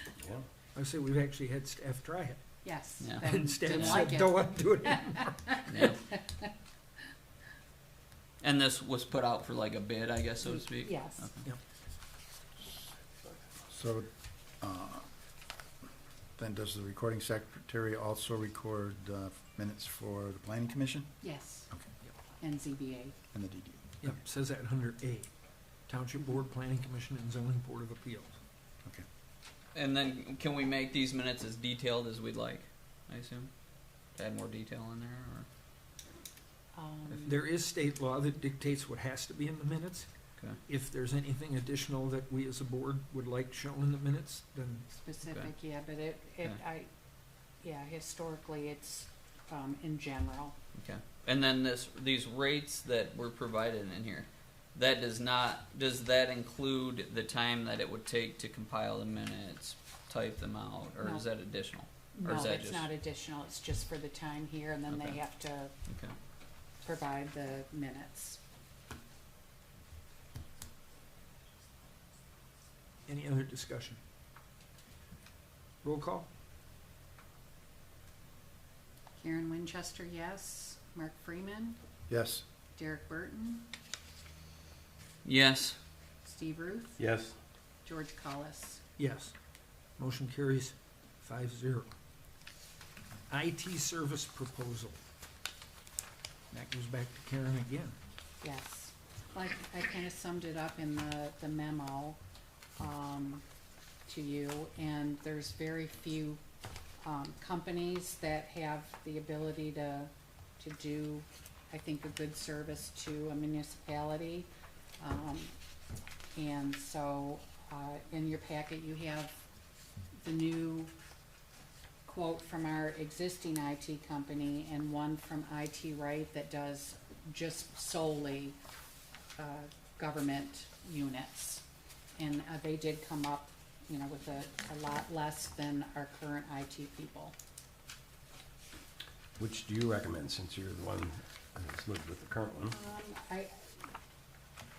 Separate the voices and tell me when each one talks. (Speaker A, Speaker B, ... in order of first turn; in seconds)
Speaker A: 0.2-0.5, 87.0-87.4, 139.4-142.7
Speaker B: 0.7-2.4, 3.1-5.8, 24.0-25.3, 25.9-28.4, 37.2-40.1, 40.6-44.9, 73.1-74.0, 75.8-76.3, 89.0-89.3, 90.0-91.9, 93.3-95.0, 96.5-98.0
Speaker C: 2.6-6.5, 10.4-11.3, 21.2-21.7, 22.4-23.1, 36.7-37.4, 44.9-46.9, 47.6-50.5, 61.0-61.2, 62.1-65.7, 66.8-68.4, 79.2-81.8, 82.7-83.7, 86.2-87.0, 87.8-88.8, 98.4-102.2, 102.8-103.4, 104.1-106.4, 107.0-114.5, 115.0-115.5, 116.3-119.4, 120.2-120.9, 122.0-128.6, 129.4-131.7, 132.2-137.3, 142.7-143.5
Speaker D: 3.0-4.0, 5.7-6.0, 8.4-11.4, 29.7-33.5, 34.1-35.5, 45.2-45.5, 50.7-62.9, 64.9-65.2, 65.9-66.1, 85.2-85.8
Speaker E: 13.7-14.1, 14.6-15.1, 16.4-21.9, 23.3-24.1, 82.1-82.4